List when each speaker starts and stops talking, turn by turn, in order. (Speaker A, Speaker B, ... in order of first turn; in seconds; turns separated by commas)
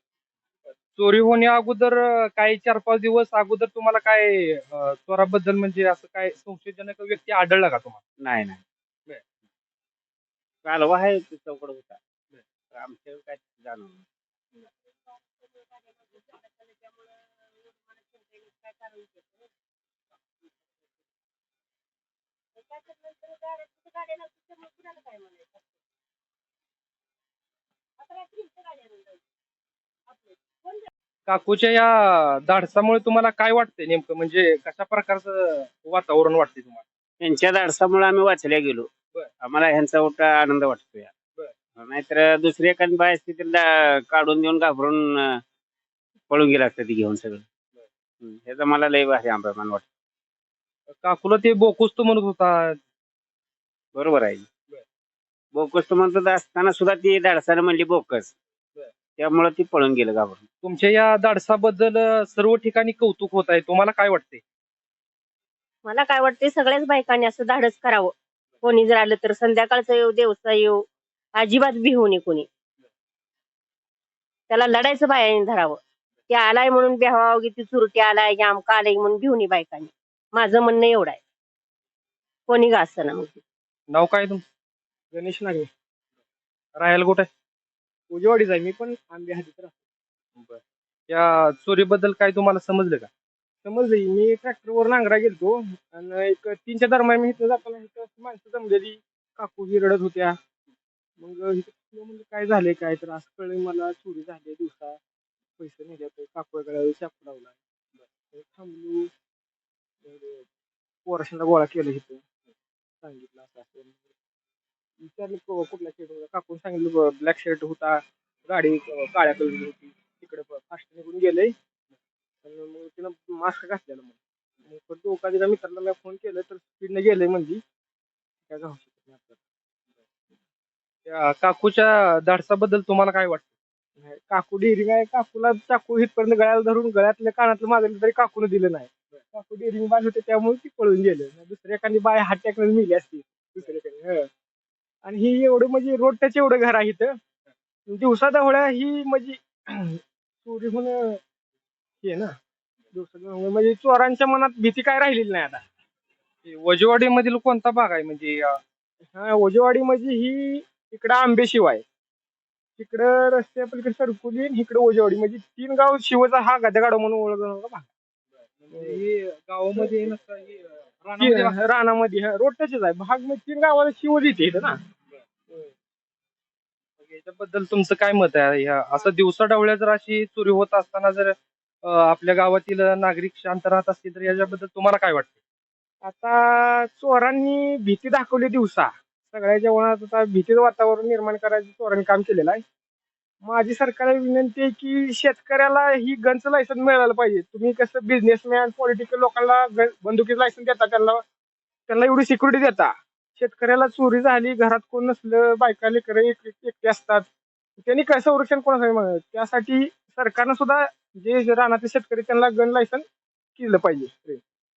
Speaker A: 0.9-8.0, Speaker B: 8.2-8.6, Speaker B: 10.6-12.0, Speaker B: 12.7-14.1, Speaker C: 15.1-19.5, Speaker C: 22.6-25.6, Speaker C: 28.0-29.2, Speaker A: 31.3-36.8, Speaker B: 37.2-38.9, Speaker B: 39.4-41.1, Speaker B: 41.8-45.4, Speaker B: 46.3-47.5, Speaker B: 48.2-49.9, Speaker A: 51.0-52.8, Speaker B: 54.0-54.5, Speaker B: 55.5-58.4, Speaker B: 59.2-60.5, Speaker A: 60.6-64.4, Speaker C: 65.8-72.5, Speaker C: 74.5-81.2, Speaker C: 82.5-83.4, Speaker A: 83.9-84.4, Speaker D: 85.1-85.7, Speaker A: 86.8-87.3, Speaker D: 88.1-89.8, Speaker A: 90.4-93.1, Speaker D: 93.6-100.4, Speaker D: 101.2-105.0, Speaker D: 105.6-107.6, Speaker D: 108.3-109.1, Speaker D: 110.0-110.5, Speaker D: 111.1-112.2, Speaker D: 113.0-114.0, Speaker D: 115.0-121.5, Speaker D: 122.4-127.6, Speaker D: 128.5-129.4, Speaker A: 131.1-133.5, Speaker D: 134.0-144.3, Speaker D: 145.1-147.2, Speaker D: 147.9-151.2, Speaker D: 152.0-152.3, Speaker D: 152.9-155.6, Speaker A: 156.4-158.6, Speaker D: 159.1-161.8, Speaker D: 162.8-167.9, Speaker A: 168.6-171.6, Speaker D: 168.7-169.0, Speaker D: 171.2-174.8, Speaker A: 177.0-185.3, Speaker D: 186.0-192.6, Speaker D: 193.4-201.2, Speaker D: 201.9-207.3, Speaker D: 207.8-213.1, Speaker D: 213.6-214.4